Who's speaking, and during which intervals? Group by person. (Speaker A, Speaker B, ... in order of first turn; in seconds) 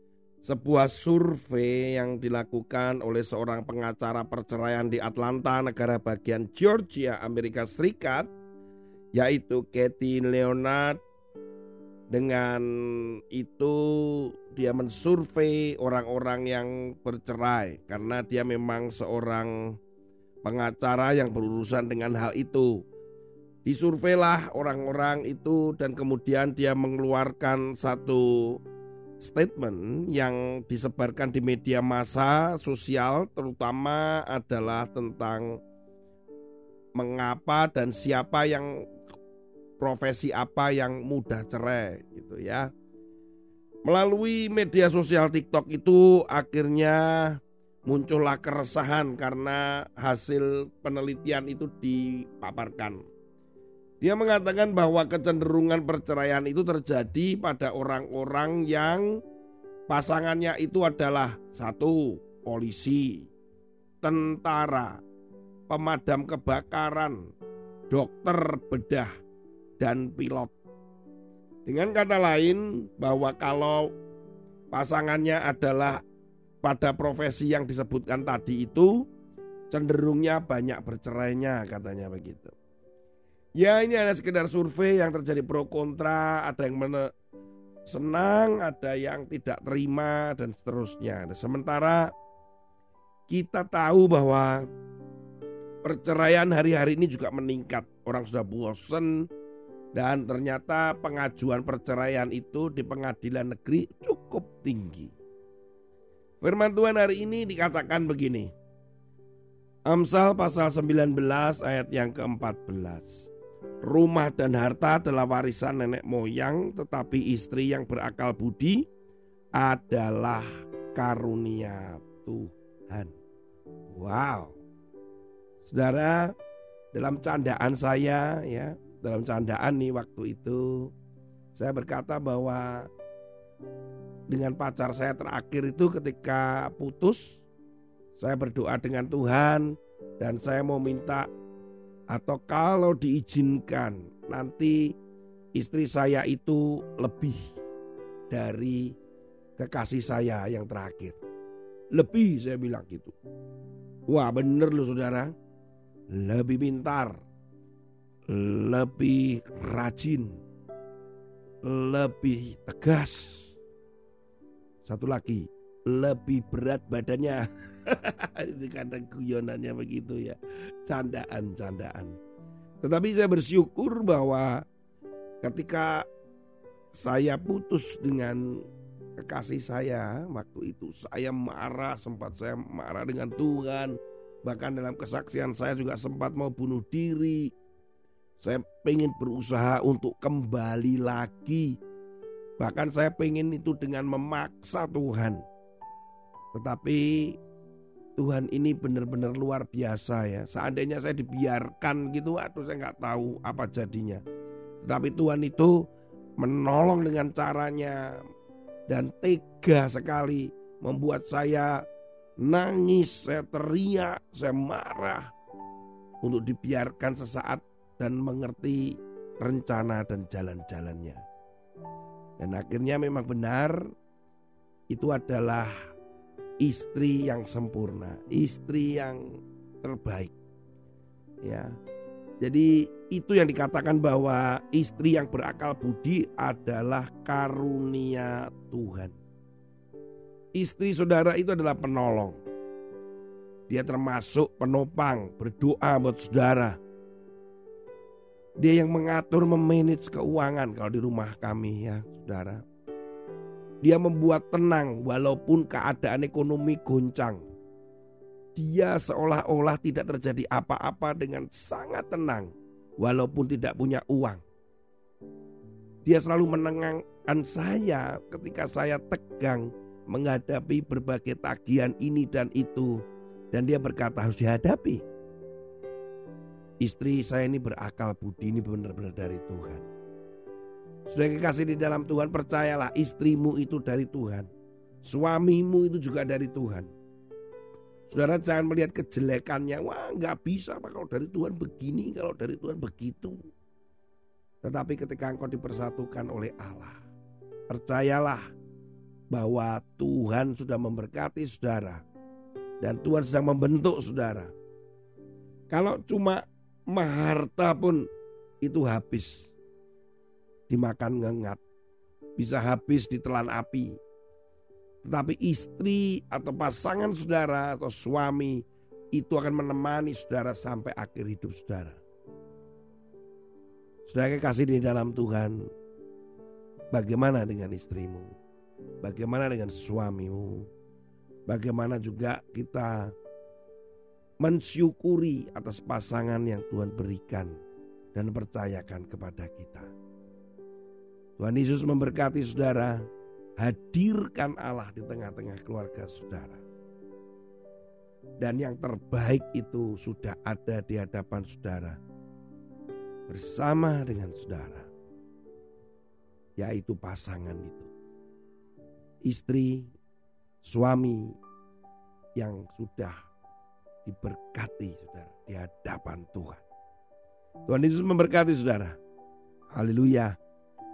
Speaker A: 0.4-8.3, 9.1-11.0, 12.1-19.8, 20.4-22.8, 23.6-28.6, 29.2-35.6, 37.0-38.9, 39.8-42.7, 43.8-53.0, 54.0-59.2, 59.9-63.3, 64.0-65.0, 65.7-67.3, 67.9-69.1, 69.8-70.5, 71.6-73.9, 74.7-76.0, 76.6-79.1, 79.7-82.5, 83.6-87.1, 87.9-92.1, 93.3-94.7, 95.8-99.3, 99.9-105.1, 106.4-108.5, 109.8-113.3, 113.8-118.9, 119.5-123.1, 123.9-124.6, 125.6-126.3, 126.9-130.9, 131.5-132.9, 134.3-137.4, 138.2-141.3, 142.1-144.9, 145.5-147.5, 148.3-148.9, 149.6-151.2, 151.9-153.1, 154.1-155.3, 156.1-157.2, 158.3-160.4, 161.6-163.6, 164.8-172.2, 172.8-174.6, 175.4-176.1, 176.9-178.6, 179.2-187.5, 188.4-191.8, 192.6-195.4, 196.5-197.4, 198.2-204.2, 204.8-208.2, 208.9-211.8, 212.4-215.3, 216.2-221.2, 222.4-223.9, 224.9-225.7, 226.6-230.3, 231.4-231.8, 232.4-239.2, 240.5-242.4, 243.7-246.8, 248.6-252.6, 253.8-257.4, 258.5-264.4, 266.0-275.0, 276.8-279.9, 281.1-284.5, 285.0-286.9, 288.1-293.4, 294.6-297.0, 297.7-298.4, 299.3-302.0, 302.8-304.5, 305.7-308.1, 308.6-309.5, 310.7-311.6, 312.4-314.0, 315.0-322.0, 324.1-325.7, 326.9-328.3, 329.0-330.7, 331.5-333.1, 334.4-337.5, 338.1-339.9, 341.4-343.1, 343.6-346.6, 348.4-352.0, 353.3-354.9, 356.6-357.9, 359.2-359.9, 360.6-361.4, 362.4-363.2, 364.0-366.6, 367.7-369.0, 369.7-370.4